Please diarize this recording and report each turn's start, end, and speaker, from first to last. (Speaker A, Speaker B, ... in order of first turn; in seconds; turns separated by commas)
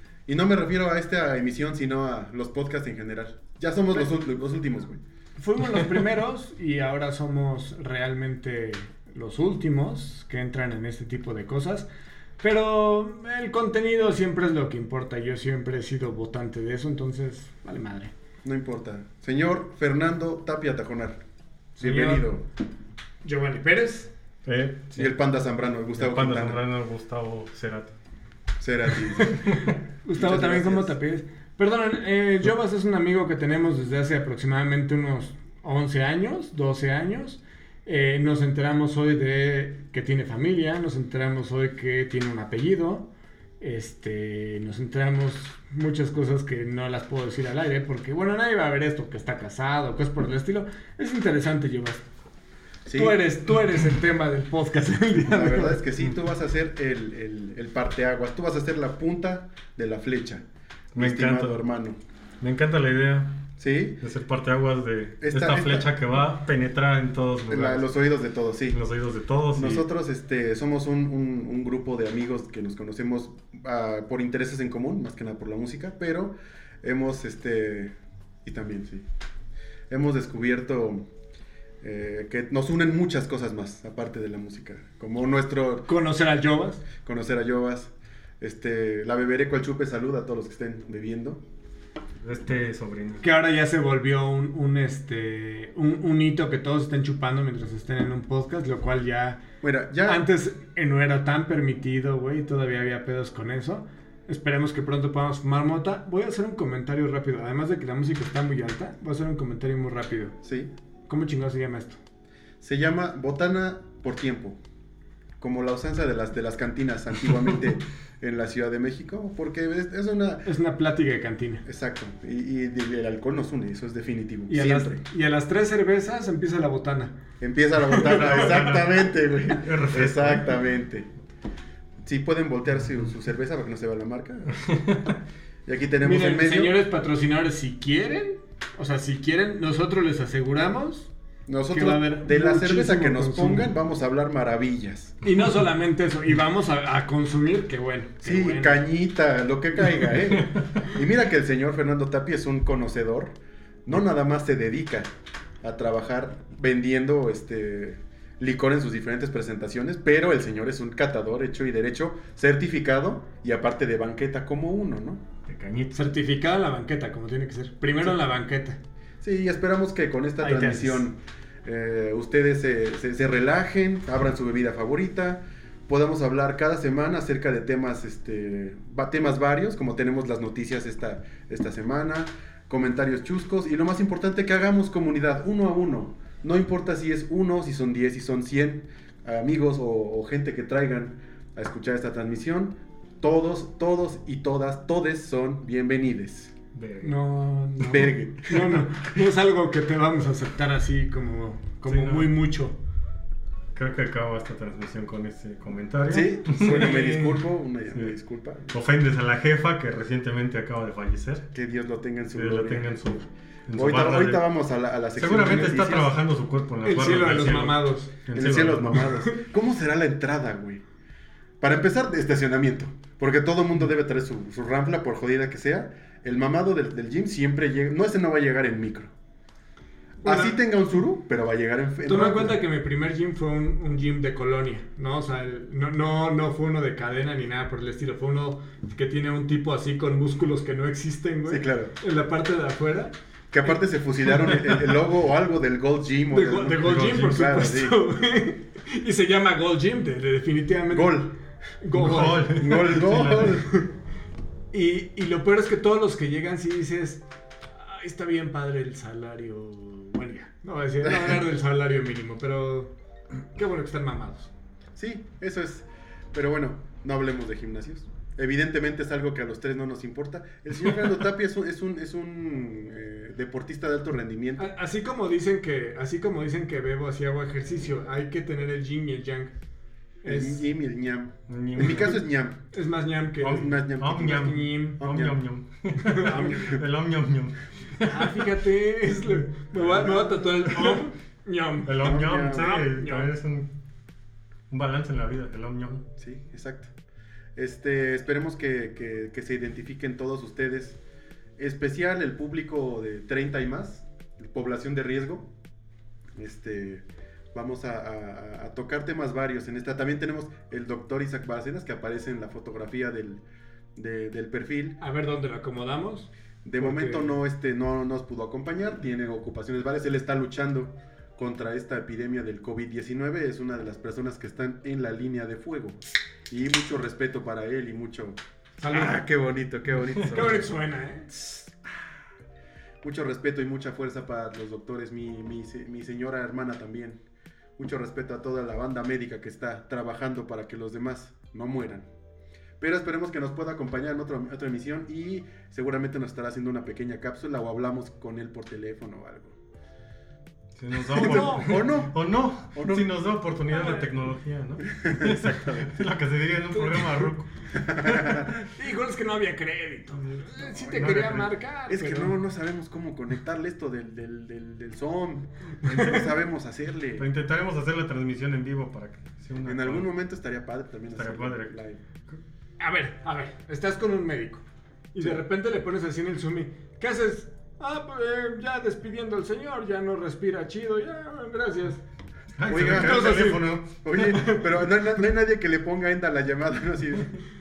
Speaker A: 0.3-5.0, Speaker B: 5.4-11.9, Speaker B: 12.4-18.1, Speaker A: 18.4-21.2, Speaker B: 21.8-22.3, Speaker A: 21.8-22.4, Speaker B: 23.2-24.1, Speaker C: 24.5-25.1, Speaker A: 24.9-26.6, Speaker C: 26.0-27.9, Speaker A: 28.6-30.9, Speaker B: 29.2-43.1, Speaker C: 29.5-29.8, Speaker B: 43.6-52.0, Speaker A: 52.9-53.2, Speaker B: 52.9-55.9, Speaker A: 55.3-60.4, Speaker C: 60.9-61.6, Speaker A: 61.0-62.0, Speaker C: 62.4-63.4, Speaker A: 63.6-64.0, Speaker C: 64.0-67.9, Speaker A: 65.2-65.9, Speaker A: 67.5-68.8, Speaker C: 68.7-69.8, Speaker A: 69.6-79.0, Speaker A: 79.9-81.0, Speaker A: 81.8-85.9, Speaker B: 85.9-86.8, Speaker A: 87.0-91.4, Speaker C: 92.2-93.2, Speaker B: 93.2-99.4, Speaker A: 99.6-100.2, Speaker B: 100.1-110.3, Speaker A: 110.4-110.7, Speaker B: 111.1-112.0, Speaker A: 112.6-114.6, Speaker A: 115.4-120.5, Speaker B: 120.5-121.6, Speaker A: 121.7-125.0, Speaker B: 124.5-127.2, Speaker A: 127.4-131.1, Speaker B: 127.8-128.5, Speaker C: 128.0-130.6, Speaker A: 132.0-134.6, Speaker C: 134.5-135.2, Speaker A: 135.7-136.8, Speaker B: 136.0-141.1, Speaker A: 141.5-145.2, Speaker B: 141.7-143.7, Speaker B: 145.2-148.8, Speaker A: 148.2-153.3, Speaker A: 153.9-155.1, Speaker A: 155.6-165.2, Speaker C: 165.5-166.1, Speaker B: 165.9-168.8, Speaker A: 169.2-196.5, Speaker B: 170.4-171.1, Speaker C: 196.7-197.2, Speaker B: 197.0-202.8, Speaker A: 197.8-199.1, Speaker C: 201.9-202.3, Speaker C: 203.8-208.1, Speaker A: 206.1-208.8, Speaker C: 208.7-211.5, Speaker A: 211.5-213.0, Speaker C: 212.3-214.4, Speaker A: 213.8-216.2, Speaker C: 215.2-219.2, Speaker B: 216.8-218.1, Speaker A: 218.3-220.8, Speaker A: 221.6-229.1, Speaker B: 230.2-230.6, Speaker A: 230.2-232.6, Speaker B: 232.1-243.1, Speaker A: 241.5-241.9, Speaker A: 243.5-248.0, Speaker B: 246.3-252.6, Speaker C: 246.8-247.4, Speaker A: 250.9-251.3, Speaker C: 251.9-253.7, Speaker A: 252.3-253.7, Speaker B: 254.7-257.2, Speaker B: 257.8-262.9, Speaker A: 261.0-261.4, Speaker B: 263.6-264.5, Speaker A: 265.0-274.7, Speaker B: 274.6-279.5, Speaker B: 280.2-280.7, Speaker A: 280.2-282.6, Speaker C: 281.5-282.2, Speaker B: 282.7-285.0, Speaker A: 283.4-285.4, Speaker C: 283.4-288.5, Speaker B: 286.0-286.8, Speaker A: 286.3-286.8, Speaker B: 288.1-293.3, Speaker C: 289.8-291.1, Speaker C: 291.9-293.7, Speaker A: 292.0-292.8, Speaker C: 294.7-296.1, Speaker A: 296.2-296.9, Speaker A: 297.6-301.0, Speaker A: 301.6-305.5, Speaker A: 306.4-313.4, Speaker A: 314.0-315.0, Speaker B: 315.0-317.4, Speaker A: 316.6-330.7, Speaker B: 328.8-329.2, Speaker B: 330.2-331.3, Speaker A: 331.4-331.7, Speaker A: 333.0-337.2, Speaker A: 337.8-342.1, Speaker A: 342.8-349.6, Speaker C: 350.8-358.5, Speaker B: 351.1-351.7, Speaker A: 351.1-352.2, Speaker A: 352.7-353.1, Speaker B: 353.7-354.1, Speaker A: 354.8-356.0, Speaker B: 356.7-357.3, Speaker A: 357.8-358.6, Speaker B: 358.7-362.4, Speaker C: 360.8-361.6, Speaker A: 361.9-367.3, Speaker B: 365.8-366.2, Speaker C: 365.8-366.4, Speaker C: 367.2-370.1, Speaker A: 369.6-372.0, Speaker C: 371.1-371.7, Speaker B: 372.8-382.0, Speaker C: 382.6-384.4, Speaker A: 382.7-387.4, Speaker B: 382.7-384.6